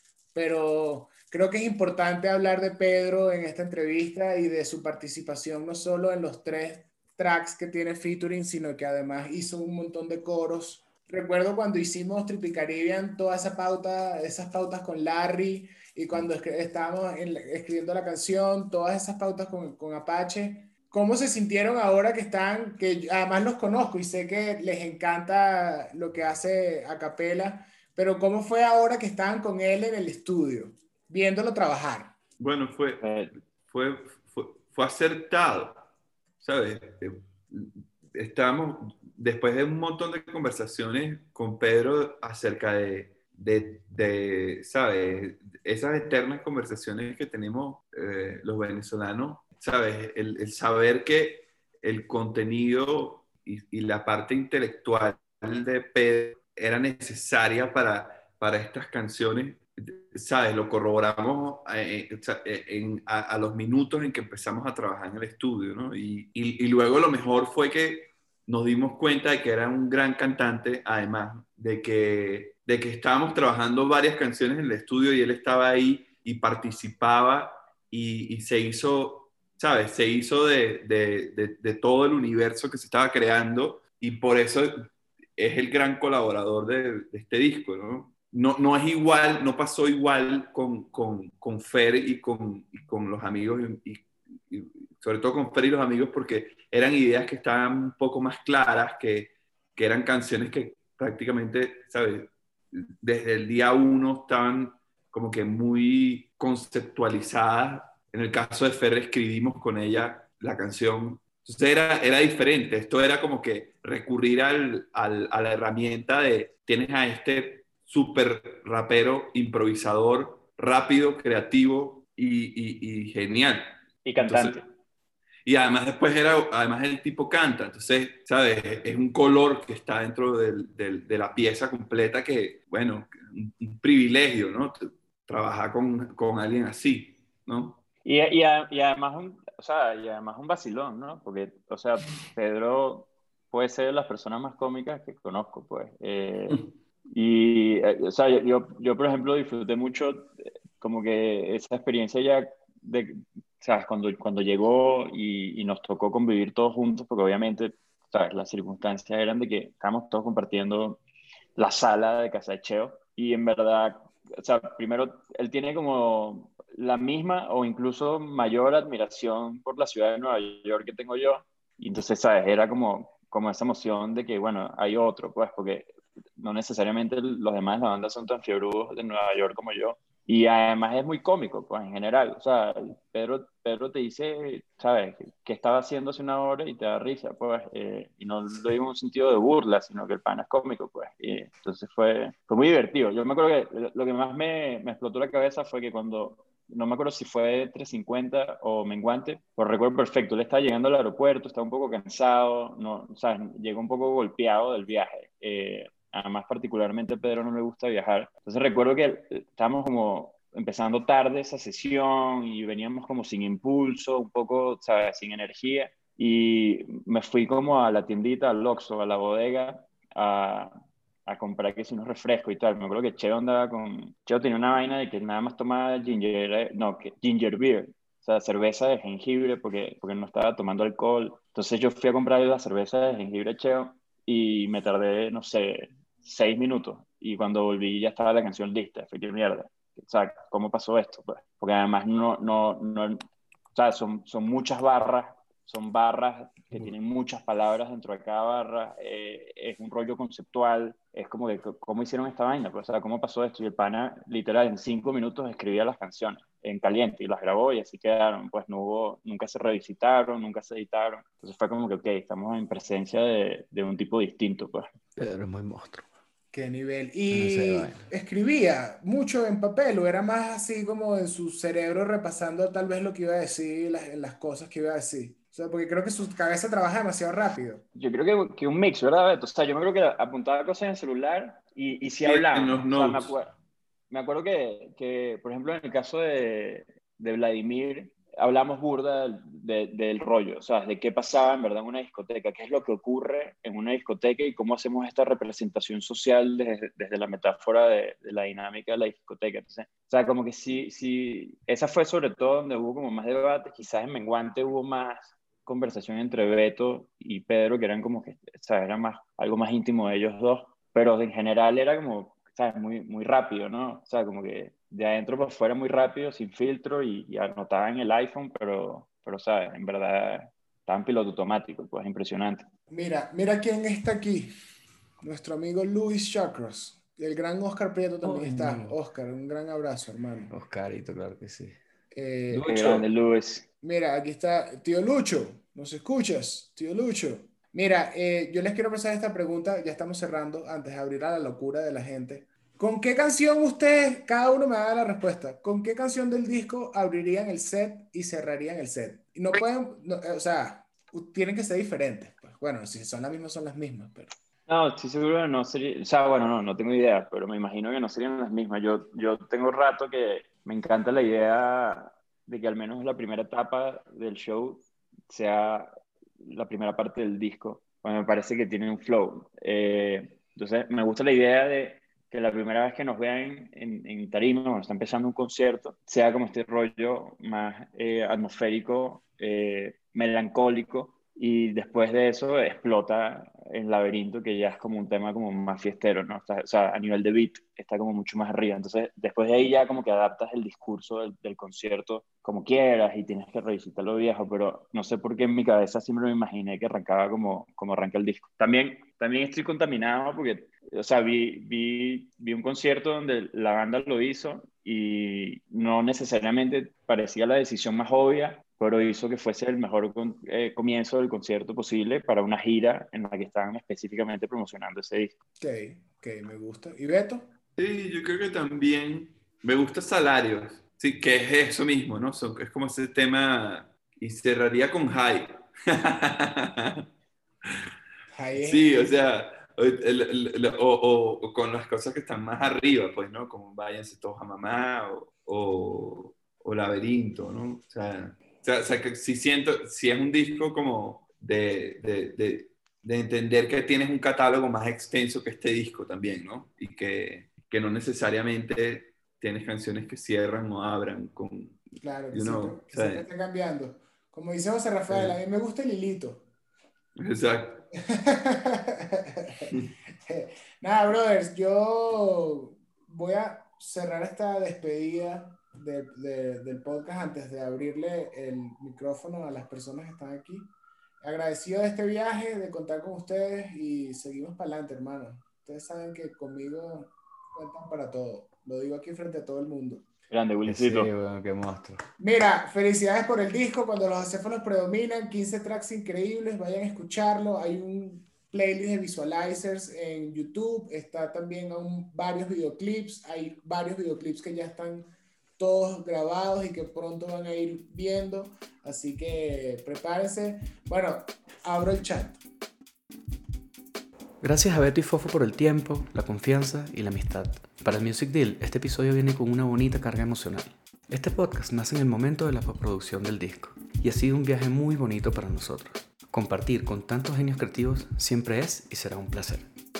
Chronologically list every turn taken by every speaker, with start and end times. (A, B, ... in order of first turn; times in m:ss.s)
0:00.3-0:32.1 A
0:32.4-0:33.1 B
0:33.0-0:33.3 C
0:33.7-0:35.8 B
0:36.4-2:04.6 B
2:04.0-2:04.6 C
2:05.5-2:17.8 B
2:18.0-2:41.0 C
2:41.6-4:24.9 C
4:25.2-4:26.1 D
4:26.5-4:37.8 A
4:27.3-4:28.1 D
4:38.0-4:43.5 C
4:42.2-4:43.4 B
4:44.1-5:22.7 C
5:22.9-5:24.5 A
5:25.2-5:30.5 A
5:28.2-5:29.0 D
5:30.5-5:31.8 D
5:32.1-5:33.0 A
5:32.5-5:33.0 D
5:32.7-5:33.7 C
5:33.8-5:54.3 A
5:54.7-6:05.9 C
6:06.4-6:55.4 C
6:55.6-6:57.5 A
6:57.8-7:07.0 B
7:08.3-7:09.0 A
7:08.6-7:33.2 B
7:32.0-7:36.5 A
7:35.1-7:35.3 B
7:37.2-7:37.8 B
7:37.9-7:39.7 A
7:40.3-8:00.1 A
8:00.3-8:01.1 C
8:00.7-8:02.0 D
8:02.2-8:22.4 A
8:24.4-8:39.7 D